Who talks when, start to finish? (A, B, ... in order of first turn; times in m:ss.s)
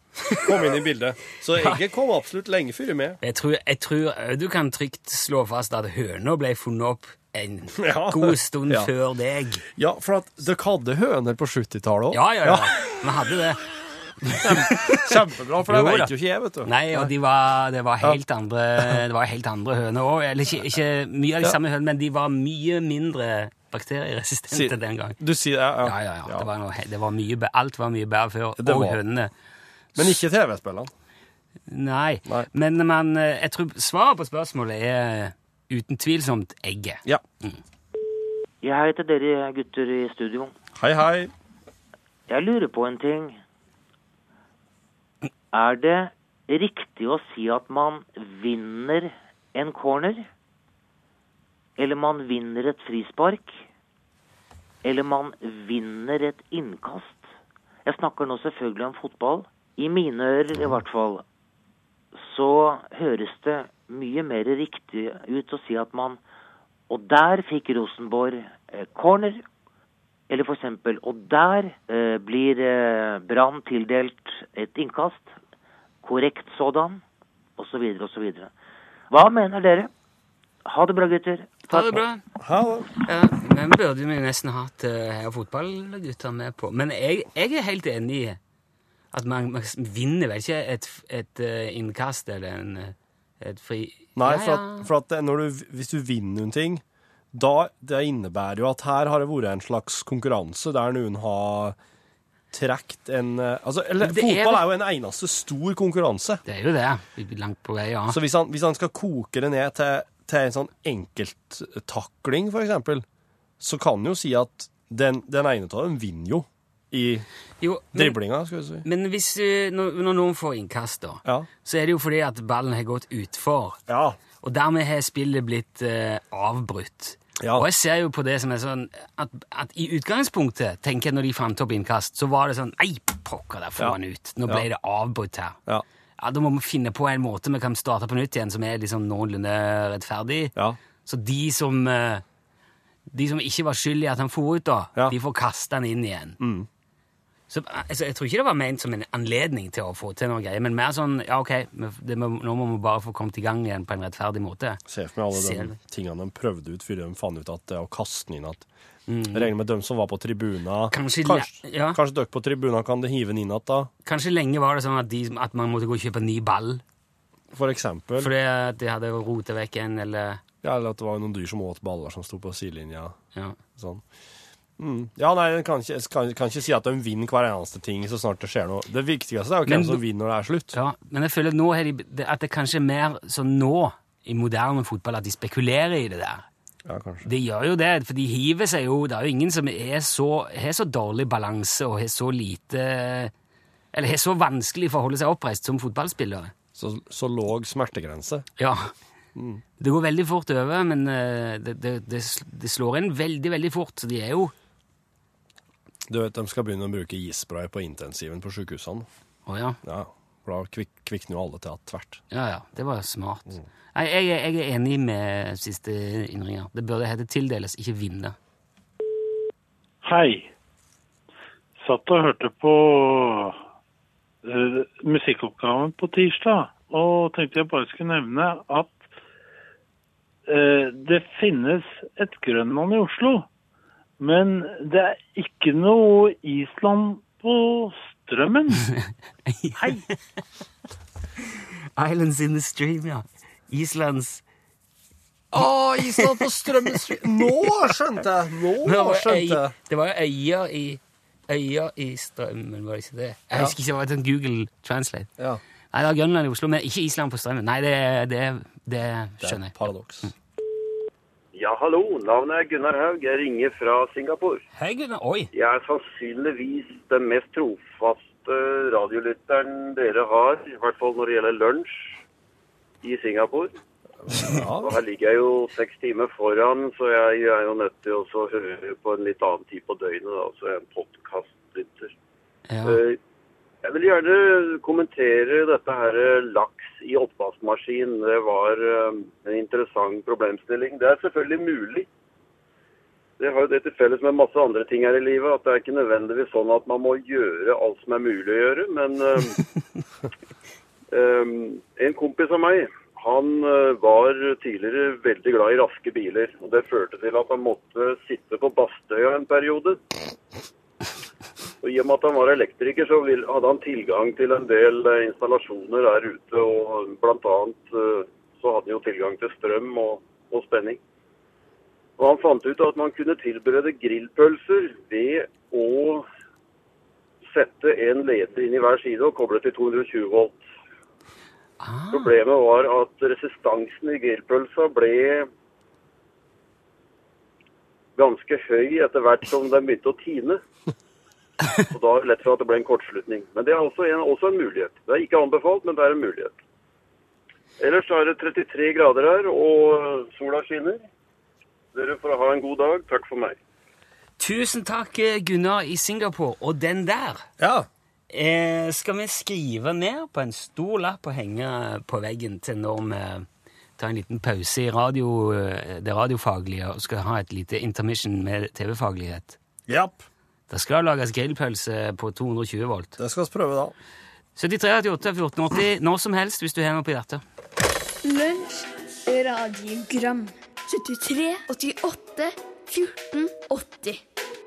0:00.4-0:03.2 A
0:03.2-0:09.6 B
0:07.7-0:08.9 A
0:09.8-0:12.7 A
0:12.1-0:13.6 B
0:14.2-0:16.1 B
0:14.4-0:17.1 A
0:16.6-0:25.2 B
0:24.5-0:26.5 A
0:25.8-0:29.3 B
0:28.6-0:29.0 A
0:29.9-0:30.9 A
0:31.7-0:37.6 B
0:38.6-0:40.5 C
0:40.8-0:41.3 A
0:42.3-0:43.4 C
0:45.5-0:50.2 C
0:51.8-0:53.6 C
0:54.8-0:57.3 C
0:57.8-1:01.2 C
1:02.1-1:06.2 C
1:06.9-1:09.4 C
1:10.3-1:15.3 C
1:16.0-1:17.0 C
1:17.6-1:18.5 C
1:19.1-1:19.9 C
1:20.6-1:21.6 C
1:21.7-1:22.2 B
1:22.4-1:22.9 A
1:23.0-1:28.4 B
1:29.1-1:34.9 B
1:34.2-1:41.8 A
1:42.5-1:46.4 A
1:44.0-1:44.7 B
1:46.4-1:48.2 B
1:48.1-1:53.0 A
1:53.6-1:57.2 A
1:57.6-1:58.2 B
1:57.9-1:58.8 A
1:58.8-2:03.8 B
2:03.9-2:04.2 A
2:04.4-2:15.6 B
2:07.4-2:07.7 A
2:13.8-2:14.7 A
2:16.2-2:20.5 B
2:21.0-2:22.2 B
2:23.1-2:26.4 B
2:26.4-2:26.7 A
2:27.5-2:34.8 B
2:34.9-2:38.6 A
2:35.3-2:35.8 B
2:39.1-2:39.5 B
2:39.3-2:43.9 A
2:40.9-2:42.0 B
2:44.0-2:46.8 B
2:47.5-2:48.3 A
2:48.2-2:50.4 B
2:50.6-2:53.2 A
2:53.7-2:54.0 A
2:54.8-3:00.8 A
2:59.7-3:00.0 B
3:00.7-3:06.4 B
3:06.8-3:07.3 A
3:07.2-3:13.3 B
3:13.9-3:16.5 B
3:16.8-3:18.5 A
3:18.6-3:18.9 B
3:19.4-3:19.6 A
3:19.8-3:24.5 B
3:26.1-3:29.0 A
3:29.4-3:29.8 B
3:29.8-3:32.2 A
3:32.3-3:38.4 B
3:40.0-3:40.5 D
3:41.8-3:43.6 D
3:44.4-3:49.0 D
3:50.5-3:53.5 D
3:54.2-3:58.9 D
3:59.0-4:00.1 B
4:02.0-4:04.4 B
4:05.5-4:09.7 A
4:06.2-4:07.2 B
4:08.8-4:15.3 B
4:15.9-4:20.3 B
4:19.4-4:20.3 A
4:21.5-4:24.6 E
4:24.8-4:25.5 B
4:25.5-4:32.1 E
4:33.0-4:33.7 E
4:34.2-4:34.9 A
4:34.8-4:42.1 E
4:42.7-4:43.0 B
4:42.8-4:43.2 E
4:43.8-4:52.1 E
4:53.4-4:59.6 E
5:01.1-5:10.0 E
5:11.8-5:21.0 E
5:22.2-5:26.2 E
5:27.5-5:30.6 E
5:31.8-5:32.3 B
5:32.1-5:35.5 E
5:38.2-5:40.6 E
5:41.9-5:46.5 E
5:47.8-5:51.0 E
5:51.9-5:53.5 E
5:54.4-5:57.4 B
5:57.6-5:57.9 A
5:58.3-6:09.6 B
6:09.9-6:10.2 A
6:10.7-6:13.2 B
6:13.2-6:13.9 A
6:14.6-6:17.4 B
6:18.2-6:24.2 F